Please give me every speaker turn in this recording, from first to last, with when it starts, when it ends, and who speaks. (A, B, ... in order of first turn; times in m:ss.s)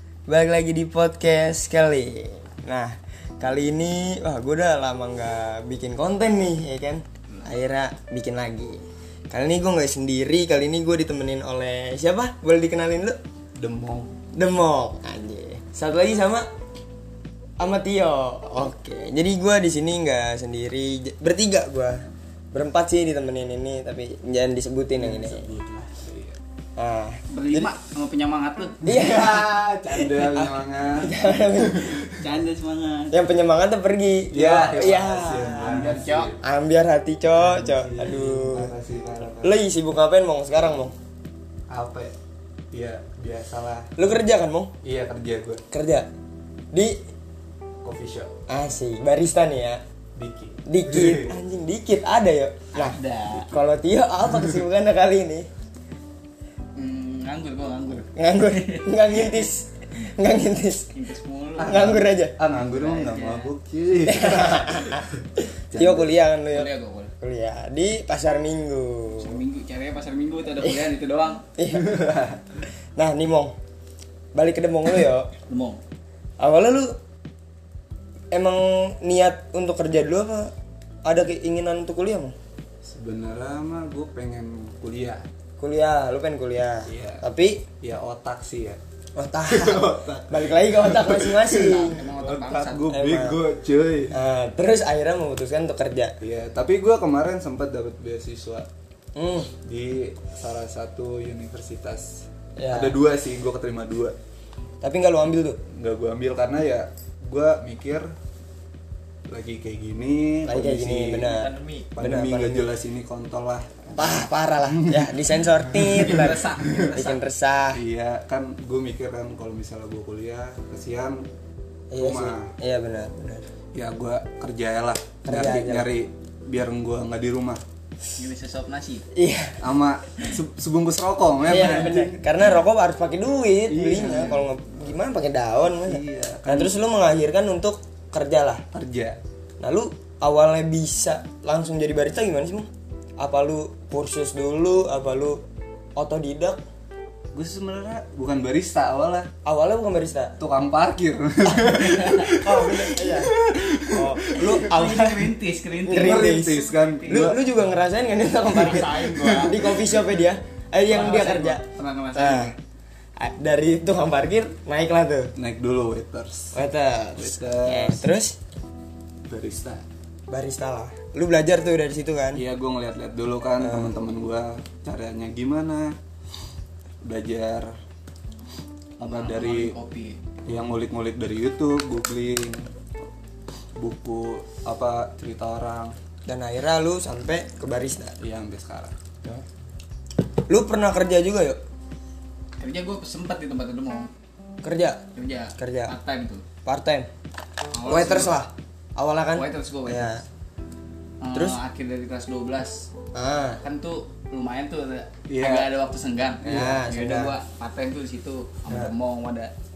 0:00.3-0:13.2 A
0:13.6-0:14.1 B
0:14.3-0:16.5 A
0:17.6-0:25.5 A
0:25.0-0:26.4 B
0:26.8-0:27.7 A
0:27.3-0:28.8 C
0:28.8-0:32.0 A
0:28.8-0:32.2 B
0:32.2-0:33.2 C
0:33.1-0:38.7 A
0:34.3-0:36.4 B
0:35.6-0:36.4 C
0:37.4-0:39.6 B
0:39.4-0:40.9 A
0:41.7-0:42.1 B
0:42.7-0:43.9 B
0:44.0-0:44.7 A
0:44.8-0:45.6 B
0:45.7-0:46.1 A
0:46.7-0:47.0 A
0:47.8-0:48.3 B
0:48.5-0:49.8 A
0:50.2-0:51.4 B
0:50.7-0:55.5 A
0:52.8-0:53.5 C
0:56.8-0:58.9 C
0:58.2-1:00.9 A
1:00.9-1:01.8 C
1:01.6-1:06.1 B
1:01.6-1:02.4 A
1:02.6-1:03.5 C
1:04.0-1:05.1 A
1:05.7-1:09.4 A
1:06.5-1:07.1 C
1:09.2-1:11.4 C
1:11.6-1:12.2 A
1:11.7-1:12.4 B
1:13.0-1:13.5 A
1:14.4-1:15.3 A
1:15.5-1:15.8 C
1:16.4-1:17.0 A
1:18.3-1:20.5 A
1:21.0-1:22.4 A
1:22.8-1:25.2 B
1:25.6-1:27.7 A
1:26.9-1:27.2 B
1:27.8-1:28.8 B
1:29.2-1:32.1 A
1:29.5-1:34.2 B
1:31.5-1:33.0 C
1:32.9-1:33.4 A
1:34.1-1:36.1 A
1:36.2-1:38.7 B
1:39.2-1:39.5 A
1:39.6-1:44.2 B
1:42.6-1:43.0 A
1:44.8-1:45.6 A
1:45.7-1:48.1 B
1:49.3-1:51.3 B
1:50.5-1:51.5 A
1:51.2-1:51.9 C
1:52.0-1:57.1 B
1:52.0-1:52.7 A
1:54.0-1:57.8 A
1:56.1-1:57.1 C
1:57.7-2:01.3 B
2:01.9-2:03.5 A
2:02.0-2:02.5 B
2:03.7-2:07.6 B
2:05.3-2:05.9 A
2:08.2-2:09.1 C
2:09.1-2:09.6 A
2:09.6-2:12.2 B
2:11.4-2:18.6 A
2:13.7-2:14.5 B
2:15.8-2:16.7 B
2:18.7-2:19.2 B
2:19.6-2:25.4 A
2:26.0-2:26.6 A
2:27.3-2:29.3 B
2:29.4-2:30.4 A
2:30.4-2:34.6 B
2:31.7-2:32.3 C
2:32.3-2:33.3 A
2:33.9-2:42.5 A
2:34.5-2:36.5 C
2:35.9-2:37.4 B
2:37.0-2:37.3 C
2:38.5-2:39.6 C
2:38.8-2:39.6 B
2:40.9-2:42.5 C
2:43.2-2:45.3 A
2:45.4-2:46.6 B
2:46.5-2:48.4 A
2:47.2-2:48.1 B
2:49.3-2:49.8 B
2:50.3-2:52.4 A
2:52.3-2:56.0 B
2:53.6-2:53.9 A
2:57.0-2:57.8 B
2:59.0-2:59.7 B
2:59.0-3:00.2 C
3:00.5-3:02.7 B
3:03.8-3:06.0 B
3:06.3-3:08.2 A
3:08.2-3:09.4 B
3:10.5-3:11.6 A
3:12.6-3:14.1 C
3:14.6-3:15.0 A
3:15.2-3:16.4 C
3:15.6-3:15.9 A
3:16.6-3:17.1 A
3:17.7-3:18.4 C
3:17.9-3:20.2 A
3:19.4-3:20.2 C
3:21.2-3:22.9 C
3:21.3-3:21.6 A
3:23.1-3:23.6 A
3:23.6-3:29.5 C
3:25.3-3:25.7 B
3:26.5-3:27.3 A